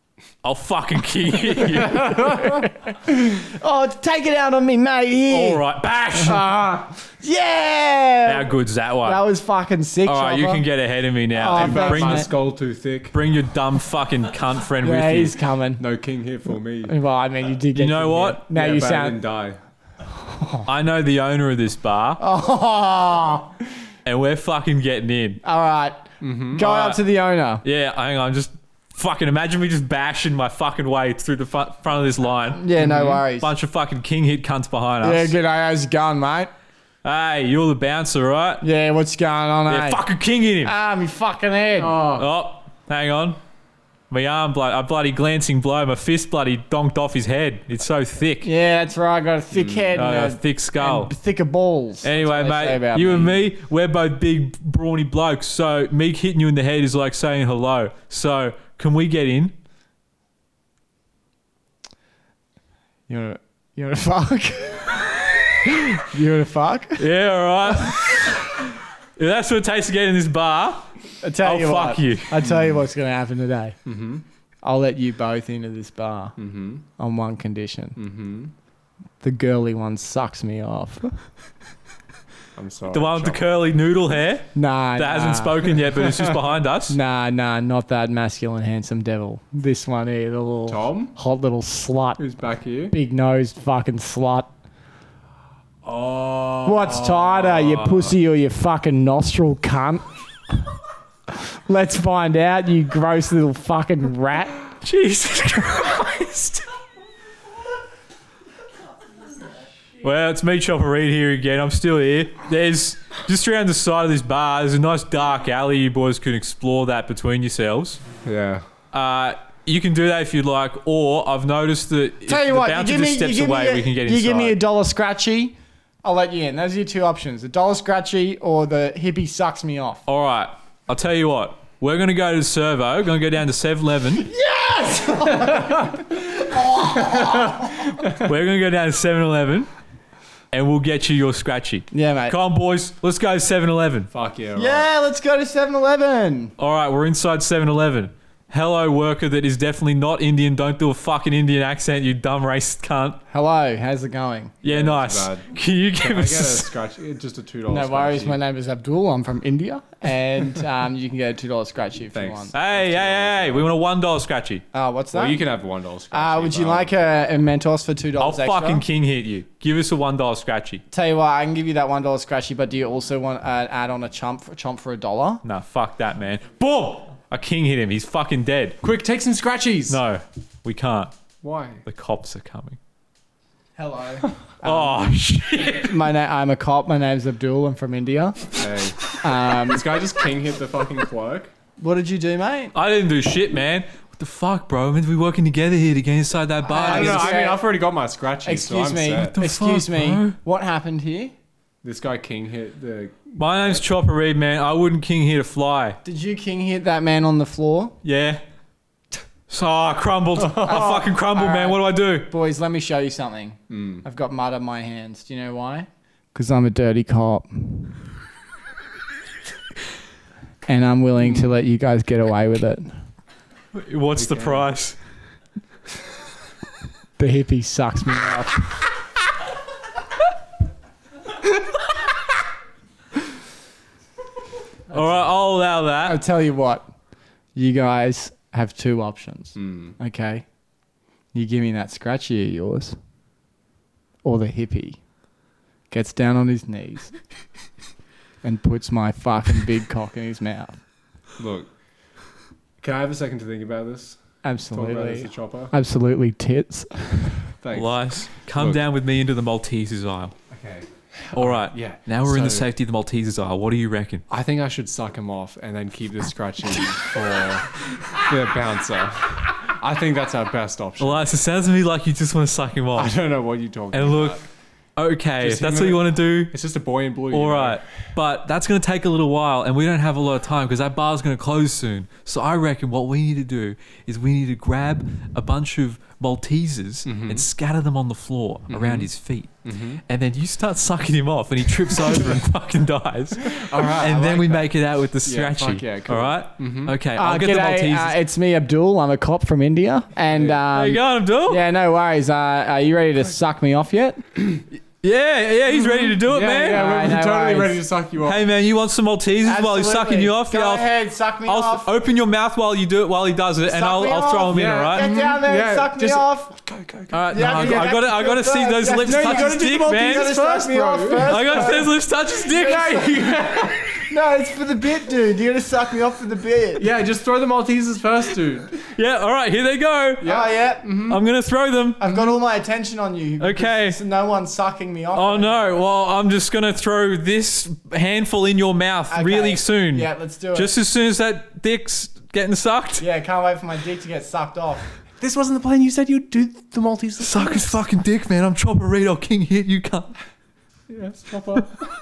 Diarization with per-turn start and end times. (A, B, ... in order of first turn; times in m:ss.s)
0:00.4-0:02.3 A
0:02.0-0:05.6 B
0:02.1-0:02.5 C
0:05.3-0:06.5 A
0:06.1-0:08.5 B
0:08.2-0:09.2 A
0:09.0-0:10.6 B
0:10.0-0:12.3 A
0:11.3-0:12.3 B
0:11.5-0:13.2 C
0:13.1-0:15.4 A
0:14.8-0:15.8 B
0:15.8-0:16.9 C
0:16.9-0:19.2 B
0:17.7-0:18.4 A
0:18.5-0:19.6 C
0:20.2-0:20.7 B
0:20.7-0:22.2 A
0:22.2-0:23.6 B
0:24.1-0:25.4 A
0:25.4-0:27.6 B
0:26.2-0:26.6 C
0:26.6-0:27.0 A
0:27.6-0:35.4 A
0:32.6-0:33.5 B
0:32.8-0:33.2 C
0:35.0-0:36.5 B
0:37.0-0:38.6 A
0:38.6-0:40.0 B
0:39.7-0:40.7 A
0:40.6-0:42.0 B
0:41.8-0:42.3 C
0:42.1-0:43.4 A
0:44.1-0:48.5 A
0:48.4-0:53.4 B
0:49.5-0:50.1 C
0:49.9-0:51.1 A
0:52.0-0:59.5 A
1:03.1-1:05.2 B
1:05.9-1:07.1 B
1:07.0-1:10.9 A
1:11.2-1:13.8 B
1:11.4-1:12.4 A
1:12.4-1:12.7 C
1:13.9-1:14.2 C
1:14.6-1:16.4 B
1:16.4-1:16.8 C
1:17.0-1:18.0 B
1:18.0-1:18.5 C
1:19.2-1:21.1 B
1:22.6-1:23.5 C
1:22.9-1:27.0 A
1:24.6-1:25.6 B
1:26.0-1:26.4 C
1:26.9-1:32.2 B
1:30.7-1:31.2 C
1:32.2-1:33.0 C
1:32.9-1:34.5 B
1:35.8-1:38.2 C
1:36.6-1:40.6 B
1:41.3-1:44.6 B
1:44.8-1:46.6 A
1:50.0-1:58.0 A
1:58.2-1:58.6 C
1:58.9-2:04.6 A
2:02.3-2:10.0 B
2:10.1-2:14.3 A
2:14.2-2:17.8 B
2:15.5-2:16.0 C
2:17.5-2:19.7 A
2:20.5-2:24.1 A
2:21.9-2:22.4 B
2:24.1-2:24.9 C
2:24.6-2:26.5 B
2:26.6-2:33.2 A
2:33.3-2:34.5 B
2:34.6-2:36.7 A
2:34.6-2:38.4 C
2:37.7-2:42.5 B
2:42.1-2:43.7 C
2:42.5-2:44.6 A
2:44.7-2:45.5 B
2:45.1-2:47.0 C
2:46.1-2:48.8 B
2:48.2-2:50.8 A
2:50.9-2:55.4 B
2:55.4-2:58.8 A
2:58.8-3:00.0 C
2:59.9-3:01.1 A
3:01.4-3:01.8 C
3:01.8-3:02.8 A
3:03.8-3:05.1 B
3:04.6-3:05.9 A
3:05.8-3:09.9 B
3:08.6-3:11.5 C
3:11.8-3:12.8 B
3:12.7-3:17.4 A
3:16.6-3:17.7 B
3:16.8-3:19.4 C
3:18.4-3:21.4 B
3:19.2-3:20.4 A
3:21.8-3:23.8 C
3:23.4-3:26.0 A
3:26.0-3:28.0 B
3:28.0-3:28.4 A
3:29.5-3:32.3 A
3:30.5-3:37.9 B
3:33.7-3:34.0 C
3:40.7-3:42.9 B
3:43.7-3:45.0 A
3:44.2-3:44.7 C
3:47.2-3:48.6 B
3:54.9-3:56.2 A
3:56.0-3:56.9 B
3:57.6-4:00.4 B
3:59.6-4:00.0 C
4:01.3-4:03.0 B
4:04.2-4:05.0 B
4:05.9-4:07.1 B
4:08.4-4:10.8 B
4:11.4-4:11.7 C
4:12.8-4:14.2 C
4:14.4-4:17.5 B
4:14.7-4:15.7 C
4:17.6-4:18.8 C
4:17.7-4:20.3 A
4:20.5-4:22.6 C
4:21.4-4:24.2 A
4:24.3-4:27.7 C
4:28.3-4:31.3 C
4:31.0-4:33.1 A
4:32.9-4:34.4 C
4:33.9-4:34.4 A
4:35.0-4:36.5 A
4:35.4-4:37.8 C
4:37.3-4:58.2 A
4:47.0-4:47.5 C
4:48.7-4:49.1 C
4:49.6-4:50.0 C
4:53.5-4:57.0 C
4:57.2-5:04.2 B
5:00.3-5:00.6 C
5:00.7-5:01.6 A
5:05.0-5:07.1 A
5:05.7-5:08.5 C
5:06.7-5:07.8 B
5:08.2-5:10.9 A
5:09.4-5:11.9 B
5:11.4-5:15.1 A
5:13.7-5:16.6 B
5:14.5-5:18.0 C
5:17.1-5:20.4 A
5:17.3-5:22.0 B
5:19.0-5:21.9 C
5:21.2-5:23.2 A
5:22.5-5:23.5 B
5:22.5-5:23.9 C
5:24.0-5:26.9 B
5:26.8-5:28.7 C
5:28.9-5:30.3 A
5:30.2-5:31.2 C
5:30.2-5:31.0 B
5:31.1-5:32.0 A
5:32.0-5:35.8 B
5:33.4-5:34.0 A
5:35.1-5:43.0 A
5:39.1-5:40.8 B
5:43.0-5:44.9 B
5:45.2-5:47.8 C
5:47.2-5:50.2 A
5:50.9-5:51.8 C